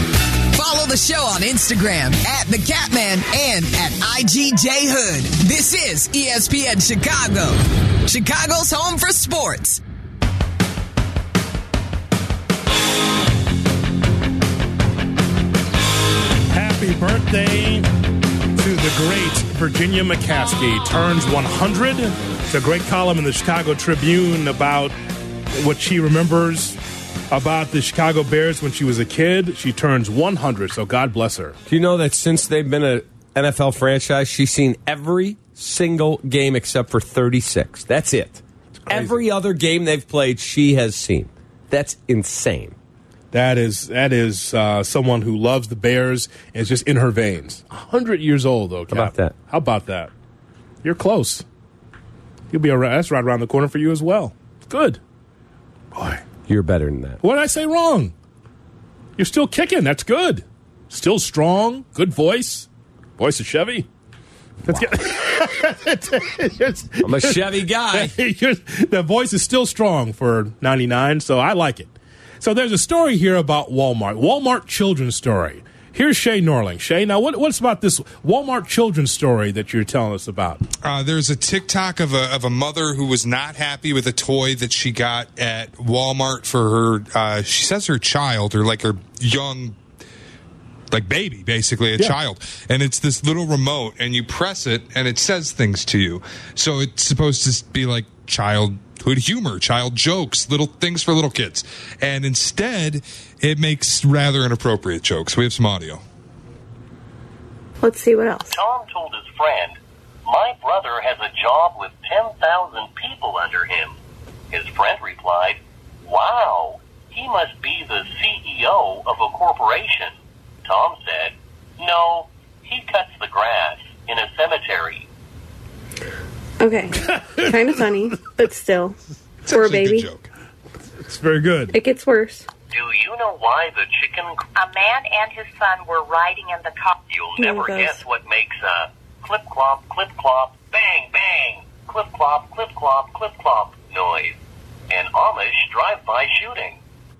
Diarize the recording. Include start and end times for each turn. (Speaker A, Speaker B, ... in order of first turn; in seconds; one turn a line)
Speaker A: 0.5-9.8
Speaker B: 16.5-17.9
Speaker B: 18.6-24.9
Speaker B: 25.5-26.8
Speaker B: 27.3-31.6
Speaker C: 31.7-42.7
Speaker B: 38.8-39.2
Speaker B: 43.3-50.1
Speaker C: 48.9-49.3
Speaker B: 50.8-51.5
Speaker B: 52.5-55.0
Speaker B: 55.9-56.2
Speaker C: 56.5-57.2
Speaker B: 57.2-58.1
Speaker B: 59.2-62.7
Speaker B: 63.2-63.9
Speaker B: 64.6-80.6
Speaker C: 67.0-68.1
Speaker D: 80.8-89.8
Speaker D: 90.9-106.0
Speaker E: 107.8-108.6
Speaker F: 108.5-113.9
Speaker F: 114.5-120.1
Speaker F: 120.6-125.0
Speaker E: 126.6-130.1
Speaker B: 127.0-127.4
Speaker D: 129.4-130.2
Speaker B: 131.0-131.7
Speaker E: 131.7-132.5
Speaker F: 132.7-134.4
Speaker G: 134.6-137.0
Speaker F: 137.1-144.4
Speaker E: 137.4-138.0
Speaker F: 144.9-146.8